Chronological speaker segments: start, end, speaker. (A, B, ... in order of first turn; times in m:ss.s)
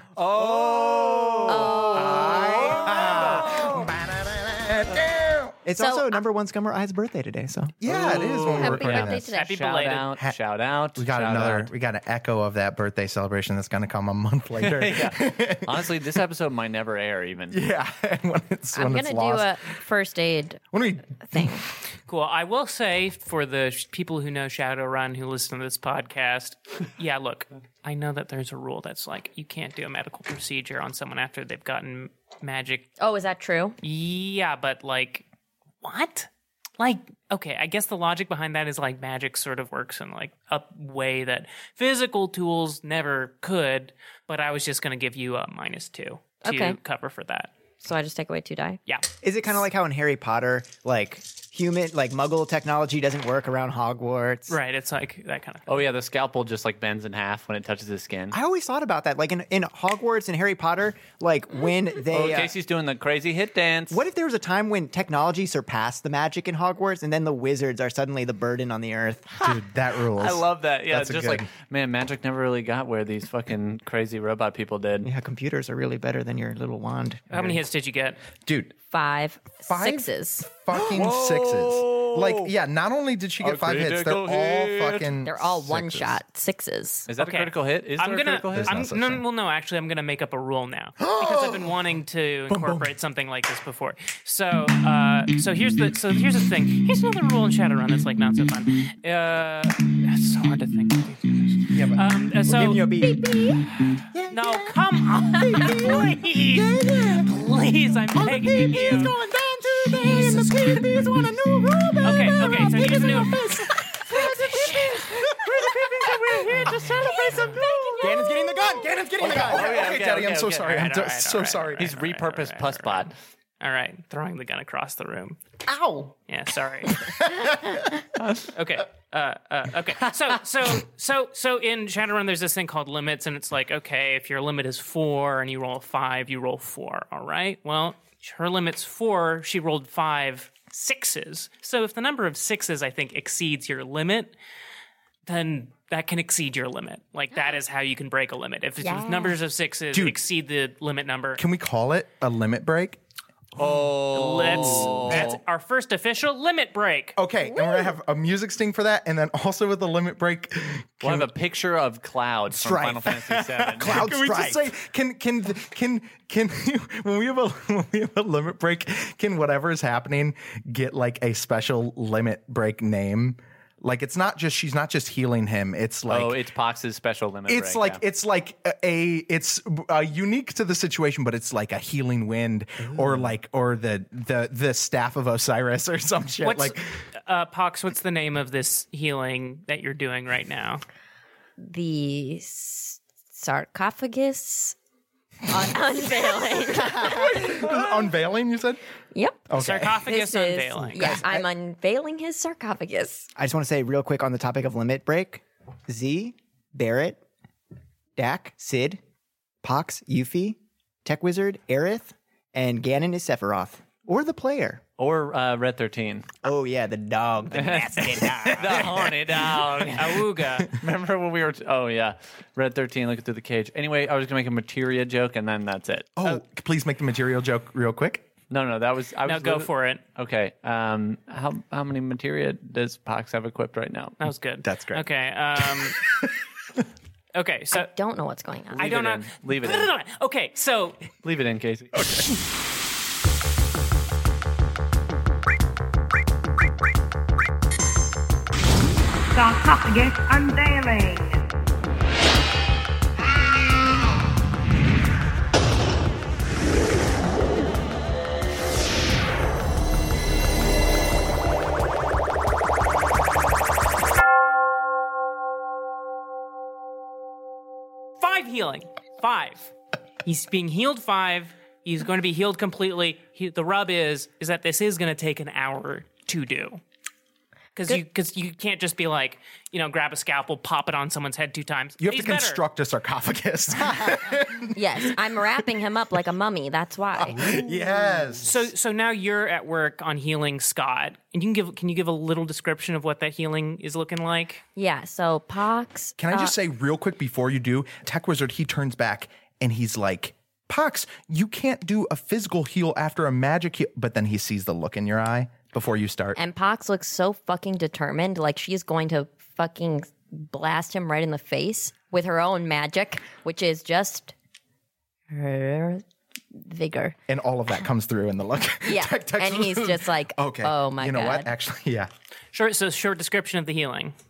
0:00.2-0:03.8 A
0:00.3-0:03.7 B
0:01.4-0:02.6 C
0:01.9-0:05.5 D
0:05.6-0:08.6 B
0:05.8-0:06.2 C
0:07.8-0:09.3 D
0:08.1-0:11.7 A
0:08.5-0:09.6 C
0:09.3-0:10.1 E
0:10.1-0:10.4 D
0:11.0-0:15.9 D
0:14.6-0:17.6 A
0:17.5-0:19.8 D
0:18.7-0:21.6 C
0:20.7-0:21.7 D
0:22.0-0:32.9 E
0:33.0-0:33.8 C
0:33.8-0:35.2 E
0:35.8-0:47.5 E
0:46.4-0:46.8 C
0:47.8-0:48.8 C
0:49.2-0:54.6 B
0:54.5-0:55.8 E
0:55.7-0:58.4 A
0:58.3-1:02.5 B
1:02.1-1:04.0 A
1:03.9-1:09.3 B
1:09.4-1:15.1 A
1:09.4-1:11.5 D
1:15.0-1:17.3 B
1:17.3-1:18.2 E
1:18.4-1:18.7 D
1:18.9-1:20.5 C
1:19.7-1:26.2 D
1:20.7-1:22.5 A
1:23.4-1:25.1 A
1:25.2-1:27.1 C
1:27.1-1:28.8 A
1:27.2-1:42.9 E
1:28.5-1:29.2 D
1:31.0-1:31.8 D
1:32.5-1:32.9 D
1:41.7-1:42.0 D
1:42.4-1:47.3 B
1:44.3-1:49.2 E
1:48.1-1:59.8 B
1:49.9-1:51.2 E
1:52.0-1:58.0 E
1:57.0-1:58.3 C
1:59.2-2:00.9 A
1:59.2-2:01.9 D
2:00.6-2:05.4 E
2:01.8-2:03.1 A
2:05.7-2:06.1 B
2:06.2-2:07.3 E
2:08.2-2:08.4 A
2:08.5-2:24.3 E
2:25.2-2:31.4 E
2:28.8-2:29.4 C
2:29.9-2:30.2 D
2:31.4-2:33.0 D
2:33.6-2:35.4 A
2:34.1-2:37.2 E
2:34.8-2:35.4 D
2:37.2-2:41.3 D
2:37.4-2:37.9 C
2:41.0-2:44.1 A
2:42.6-2:43.2 B
2:42.7-2:56.4 D
2:43.7-2:44.7 B
2:56.1-2:58.0 A
2:57.5-3:07.0 D
3:02.9-3:03.2 B
3:06.4-3:10.8 E
3:11.6-3:14.8 C
3:15.5-3:17.8 C
3:16.9-3:18.8 D
3:19.1-3:19.4 C
3:19.5-3:20.1 D
3:19.5-3:21.2 E
3:20.0-3:23.3 C
3:23.4-3:27.2 B
3:28.2-3:29.0 B
3:29.6-3:34.8 B
3:35.0-3:36.3 A
3:36.4-3:39.2 B
3:37.5-3:46.4 A
3:39.9-3:40.7 E
3:46.2-3:48.2 D
3:48.5-3:54.2 A
3:49.2-3:50.0 E
3:54.2-3:56.0 E
3:54.6-3:56.3 D
3:57.3-3:57.9 E
3:57.7-3:58.9 C
3:58.7-3:59.9 A
3:58.8-4:01.1 E
4:01.2-4:02.0 A
4:01.9-4:02.3 D
4:09.3-4:11.5 F
4:28.2-4:29.7 E
4:30.2-4:36.8 E
4:37.7-4:42.6 E
4:42.0-4:45.1 D
4:44.7-4:47.6 C
4:47.2-4:48.7 D
4:48.4-4:54.6 E
4:54.8-4:56.5 C
4:56.2-5:06.4 D
5:06.4-5:14.3 C
5:15.3-5:16.0 C
5:16.5-5:17.2 C
5:17.3-5:22.1 D
5:18.8-5:21.5 C
5:22.5-5:24.1 E